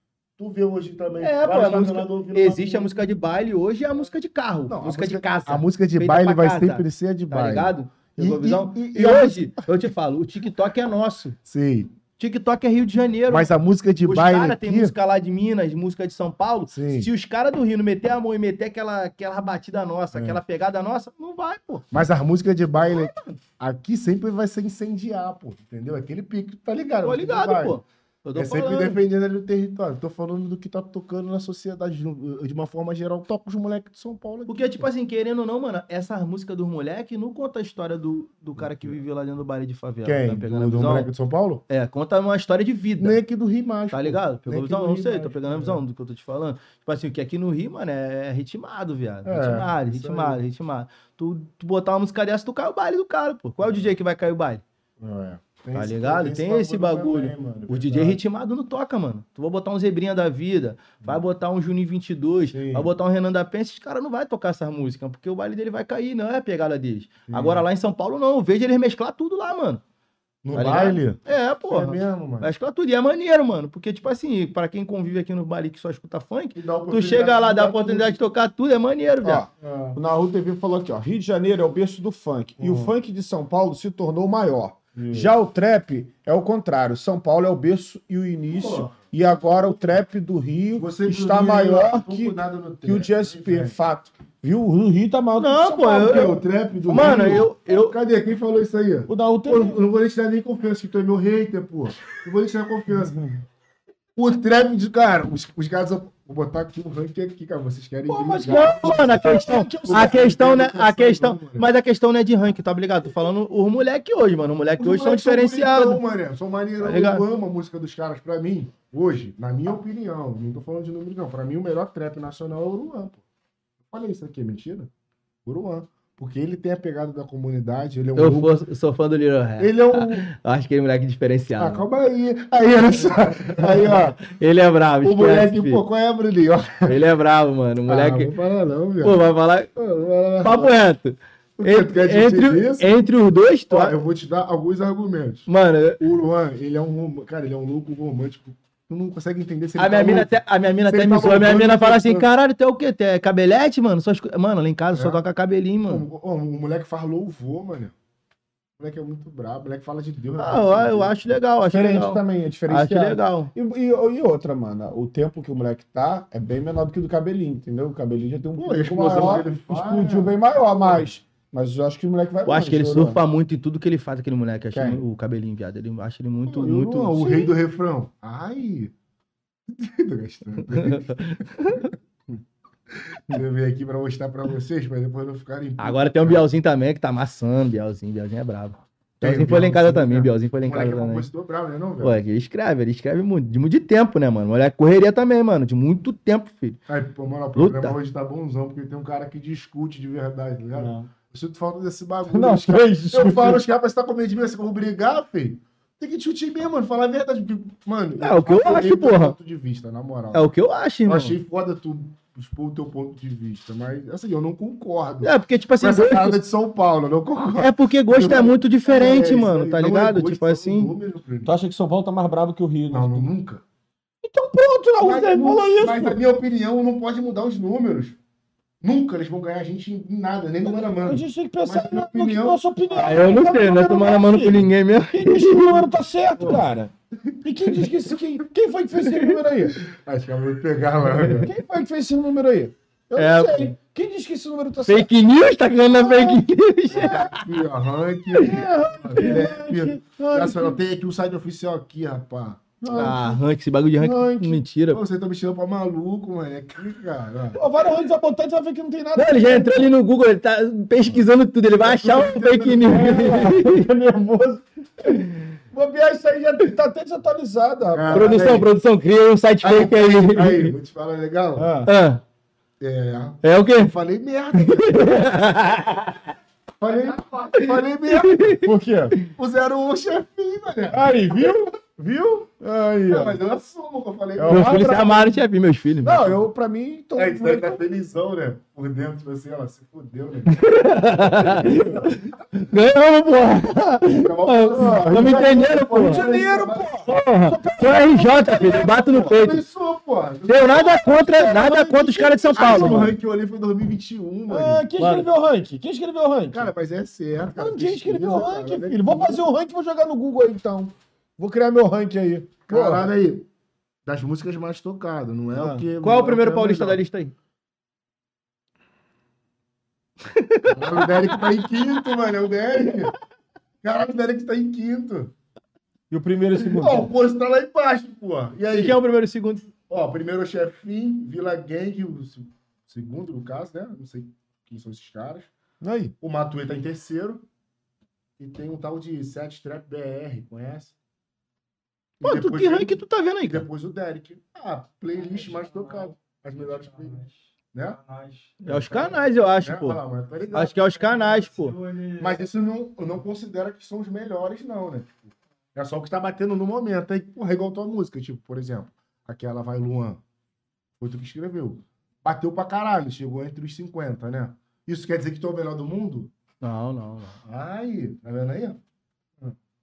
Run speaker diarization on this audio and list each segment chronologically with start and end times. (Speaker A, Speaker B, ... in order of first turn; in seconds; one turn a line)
Speaker A: 0.4-2.9
Speaker B: 1.2-11.4
Speaker A: 4.7-9.7
Speaker A: 11.4-11.9
Speaker B: 12.2-13.5
Speaker A: 13.3-14.9
Speaker B: 14.0-21.8
Speaker A: 16.7-17.1
Speaker A: 20.1-20.4
Speaker A: 21.9-27.8
Speaker B: 22.8-23.4
Speaker B: 27.0-29.0
Speaker A: 28.3-34.9
Speaker B: 34.5-41.1
Speaker A: 38.6-39.0
Speaker A: 40.0-41.6
Speaker B: 41.7-43.2
Speaker A: 43.0-45.8
Speaker B: 43.9-54.6
Speaker A: 49.2-50.4
Speaker A: 53.6-53.9
Speaker A: 55.0-58.2
Speaker B: 55.7-69.8
Speaker A: 62.5-62.9
Speaker A: 67.3-67.6
Speaker A: 70.4-72.5
Speaker B: 70.5-79.4
Speaker A: 76.5-78.2
Speaker C: 79.2-96.4
Speaker A: 79.6-80.0
Speaker A: 82.6-82.9
Speaker A: 84.9-85.3
Speaker B: 88.6-88.9
Speaker A: 90.8-93.7
Speaker B: 95.4-96.3
Speaker A: 96.0-103.3
Speaker B: 96.9-97.9
Speaker C: 99.1-99.8
Speaker A: 104.2-111.7
Speaker C: 108.1-110.2
Speaker B: 108.5-116.0
Speaker A: 114.8-123.2
Speaker B: 116.8-117.2
Speaker A: 123.9-124.9
Speaker A: 125.4-128.5
Speaker B: 128.2-131.8
Speaker A: 129.6-130.2
Speaker A: 131.6-134.2
Speaker B: 133.4-135.8
Speaker A: 135.0-137.0
Speaker B: 136.9-138.3
Speaker A: 137.9-139.2
Speaker B: 139.0-139.7
Speaker A: 139.7-140.7
Speaker B: 140.4-143.9
Speaker A: 141.6-142.9
Speaker A: 143.7-145.5
Speaker B: 145.5-146.0
Speaker A: 146.0-150.3
Speaker B: 149.8-156.0
Speaker A: 150.8-152.3
Speaker A: 154.9-155.2
Speaker A: 155.9-157.9
Speaker A: 158.8-161.1
Speaker B: 160.4-163.5
Speaker C: 161.7-173.2
Speaker A: 168.6-171.0
Speaker B: 172.4-177.2
Speaker C: 174.7-175.0
Speaker A: 176.4-178.9
Speaker C: 177.2-177.5
Speaker A: 179.7-181.1
Speaker B: 180.7-181.9
Speaker A: 181.7-182.4
Speaker A: 182.9-186.4
Speaker B: 185.8-191.3
Speaker A: 189.2-192.2
Speaker B: 192.0-196.8
Speaker A: 196.9-210.5
Speaker B: 197.6-198.0
Speaker C: 200.7-201.1
Speaker C: 202.3-203.6
Speaker B: 208.2-209.3
Speaker B: 210.3-211.4
Speaker A: 211.1-221.5
Speaker B: 215.2-216.4
Speaker B: 217.6-220.9
Speaker C: 221.4-223.3
Speaker A: 222.9-223.6
Speaker C: 224.2-226.2
Speaker A: 225.0-228.2
Speaker A: 228.8-232.6
Speaker C: 230.6-236.9
Speaker B: 232.9-235.9
Speaker C: 237.4-239.8
Speaker B: 239.0-239.3
Speaker A: 239.8-241.5
Speaker C: 241.4-245.1
Speaker B: 243.2-243.7
Speaker B: 244.8-247.4
Speaker C: 246.0-246.4
Speaker A: 246.9-253.2
Speaker C: 248.4-250.8
Speaker C: 252.8-253.4
Speaker B: 252.9-255.0
Speaker C: 254.0-254.6
Speaker A: 254.9-257.6
Speaker C: 257.5-259.9
Speaker B: 259.1-263.9
Speaker A: 261.8-263.4
Speaker C: 262.8-265.1
Speaker B: 265.0-265.5
Speaker C: 265.7-268.5
Speaker A: 267.9-268.7
Speaker B: 268.1-270.7
Speaker A: 269.6-271.7
Speaker C: 271.6-271.9
Speaker B: 271.9-272.2
Speaker A: 272.8-275.2
Speaker B: 273.4-273.9
Speaker B: 274.6-276.2
Speaker A: 276.8-278.6
Speaker B: 277.6-279.3
Speaker C: 278.6-279.2
Speaker A: 279.3-281.7
Speaker C: 280.9-283.4
Speaker A: 283.1-285.0
Speaker C: 284.4-285.4
Speaker B: 284.5-286.4
Speaker C: 286.0-287.8
Speaker A: 287.1-290.6
Speaker B: 290.5-296.3
Speaker A: 291.2-292.2
Speaker A: 294.1-297.1
Speaker C: 294.7-299.4
Speaker B: 297.1-299.6
Speaker A: 299.2-301.0
Speaker B: 300.5-303.1
Speaker C: 300.8-303.1
Speaker A: 302.6-304.8
Speaker C: 304.5-306.7
Speaker B: 305.0-305.3
Speaker A: 306.5-309.4
Speaker C: 307.5-313.1
Speaker A: 312.7-313.5
Speaker A: 314.1-317.0
Speaker C: 315.5-315.9
Speaker B: 316.0-317.3
Speaker B: 320.3-321.7
Speaker A: 320.7-323.1
Speaker B: 322.8-323.1
Speaker A: 323.8-325.3
Speaker C: 326.1-327.1
Speaker A: 326.7-329.0
Speaker B: 328.7-329.7
Speaker A: 329.9-335.5
Speaker C: 335.8-336.1
Speaker A: 336.2-337.4
Speaker A: 338.4-340.9
Speaker A: 342.2-348.0
Speaker B: 342.2-343.7
Speaker B: 348.6-350.0
Speaker A: 348.6-350.8
Speaker B: 350.5-351.8
Speaker A: 352.2-360.2
Speaker A: 361.0-366.3
Speaker B: 366.6-367.4
Speaker A: 367.4-368.8